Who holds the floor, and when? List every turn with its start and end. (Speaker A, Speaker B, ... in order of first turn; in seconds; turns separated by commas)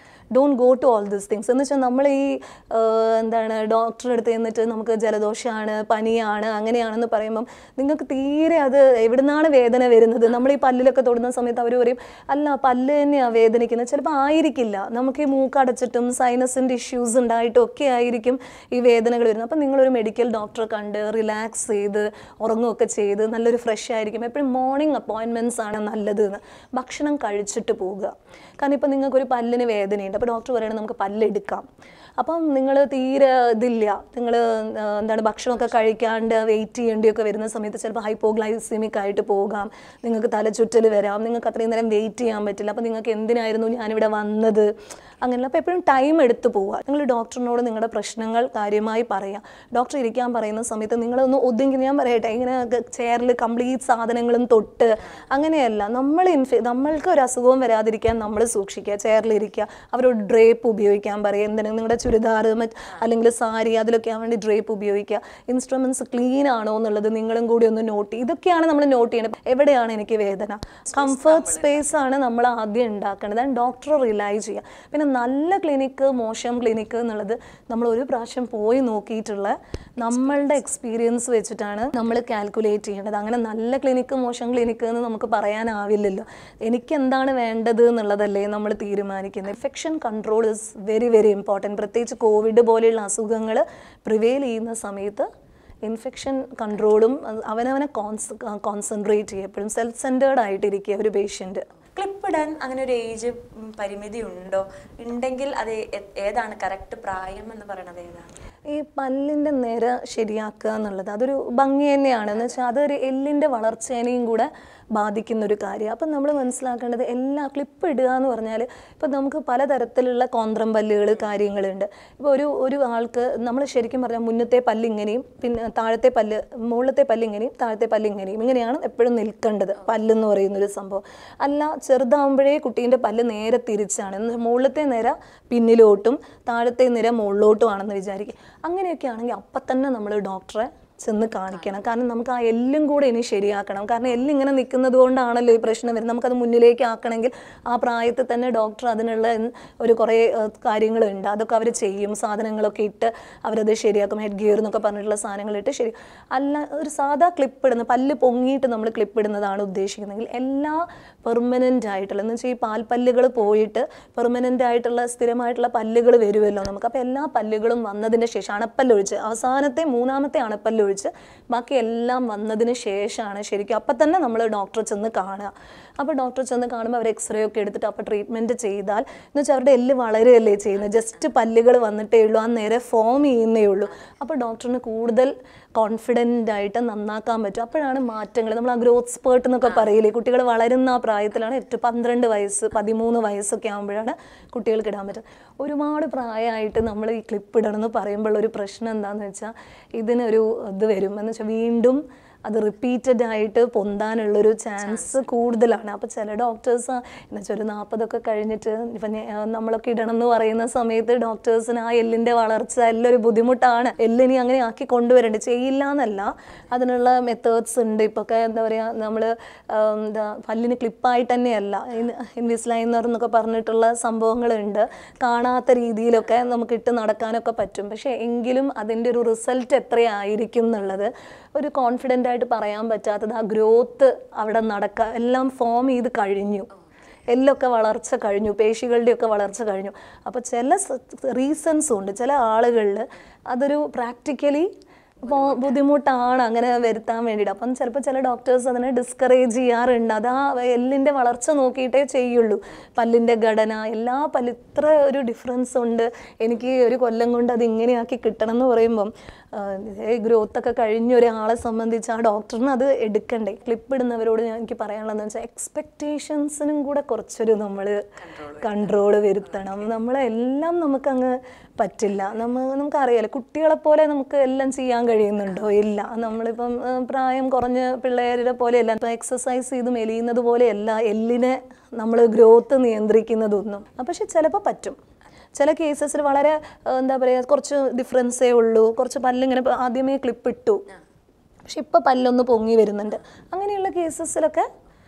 Speaker A: 0.3-31.6, Speaker A: 32.2-44.7, Speaker A: 45.2-95.2, Speaker B: 70.9-71.8, Speaker B: 80.0-80.5, Speaker A: 95.8-101.7, Speaker B: 101.9-108.3, Speaker A: 108.7-236.7, Speaker B: 204.8-205.3, Speaker A: 237.3-244.7, Speaker A: 245.2-268.0, Speaker B: 245.3-245.7, Speaker B: 268.2-268.9, Speaker A: 268.6-285.0, Speaker B: 275.5-275.8, Speaker A: 285.5-290.8, Speaker A: 291.6-294.7